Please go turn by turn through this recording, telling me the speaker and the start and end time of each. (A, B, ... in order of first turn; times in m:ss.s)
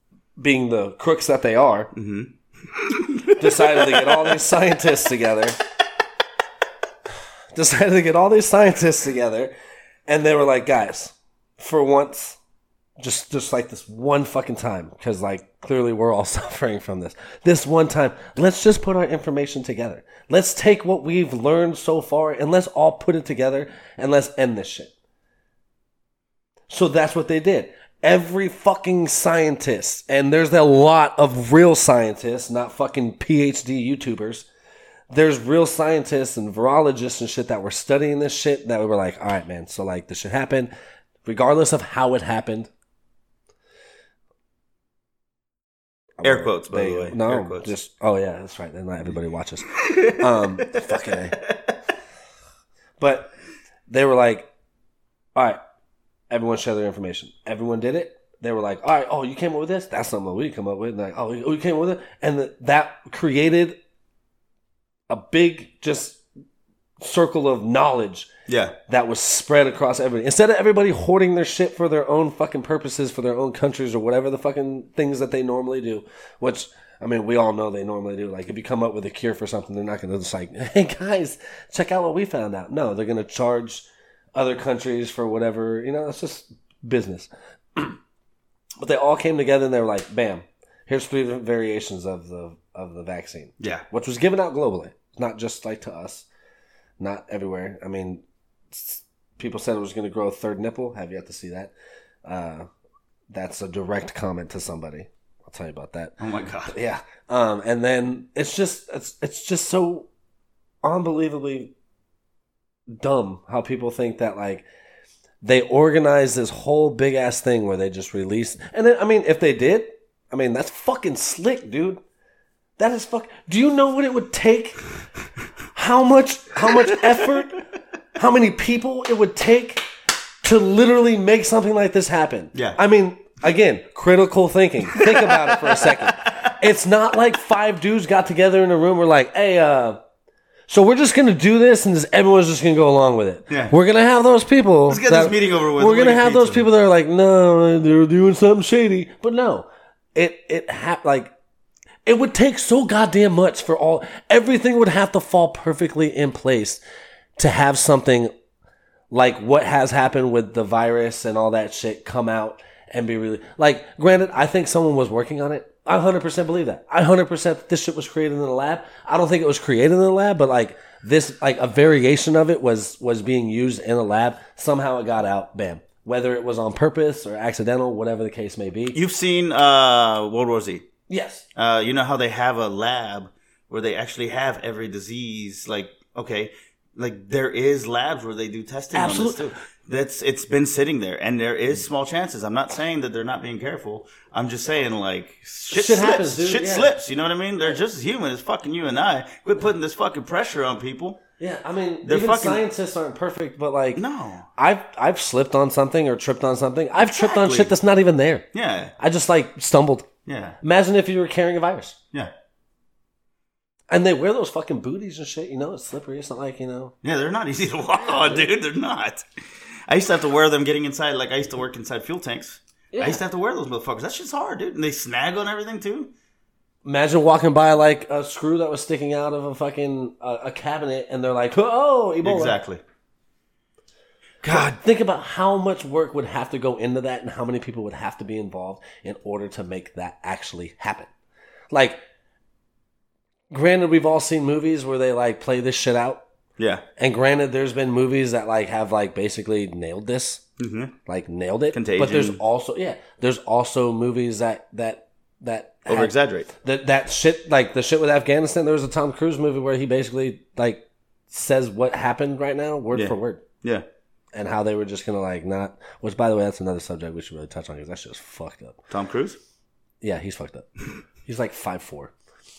0:00.4-0:01.9 A
0:01.9-0:04.3 B
0:03.4-0:05.6 A
0:07.5-0:09.5 A
0:10.1-0:12.4 A
0:13.0-0:24.9 A
0:26.7-0:34.5 A
0:35.1-0:40.7 A
0:41.2-0:42.7 A
0:46.2-0:51.4 A
0:46.2-0:47.7 B
0:49.8-0:51.7 B
0:53.0-0:53.3 A
0:53.9-0:54.5 A
0:56.3-1:03.8 A
1:05.1-1:06.2 A
1:07.0-1:08.3 A
1:08.5-1:08.8 B
1:08.9-1:28.0 A
1:28.8-1:36.3 A
1:33.6-1:33.8 B
1:37.0-1:41.7 A
1:42.2-1:42.7 A
1:43.3-1:46.2 A
1:46.2-1:46.8 B
1:46.7-1:50.1 A
1:50.8-1:51.7 A
1:52.9-1:54.6 A
1:55.4-2:02.0 A
2:02.8-2:04.8 A
2:05.7-2:07.6 A
2:08.2-2:09.8 A
2:10.4-2:20.0 A
2:12.5-2:12.8 B
2:14.9-2:16.6 B
2:20.7-2:31.3 A
2:23.5-2:23.7 B
2:24.9-2:26.7 B
2:32.0-2:36.8 A
2:37.4-2:38.3 A
2:39.1-2:59.0 A
2:58.9-3:00.8 B
3:01.1-3:01.4 A
3:01.6-3:21.2 B
3:08.9-3:09.5 A
3:15.7-3:16.9 A
3:21.4-3:24.0 A
3:22.0-3:22.6 B
3:23.9-3:24.5 B
3:24.6-3:28.5 A
3:27.0-3:27.7 B
3:28.5-3:28.9 B
3:29.0-3:30.1 A
3:30.2-3:30.6 B
3:30.6-3:32.0 A
3:33.9-3:36.9 A
3:37.0-3:39.2 B
3:38.0-3:38.4 A
3:39.9-3:46.1 B
3:42.9-3:43.2 A
3:46.8-3:52.6 A
3:52.2-3:52.8 B
3:54.4-3:54.7 B
3:54.4-4:01.1 A
4:01.7-4:02.0 A
4:03.5-4:06.2 A
4:06.6-4:06.8 B
4:07.0-4:10.4 A
4:10.6-4:10.9 B
4:11.0-4:23.4 A
4:11.7-4:12.4 B
4:15.9-4:16.5 B
4:22.9-4:23.8 B
4:24.3-4:28.8 A
4:28.9-4:29.4 B
4:30.0-4:30.7 A
4:31.2-4:32.1 A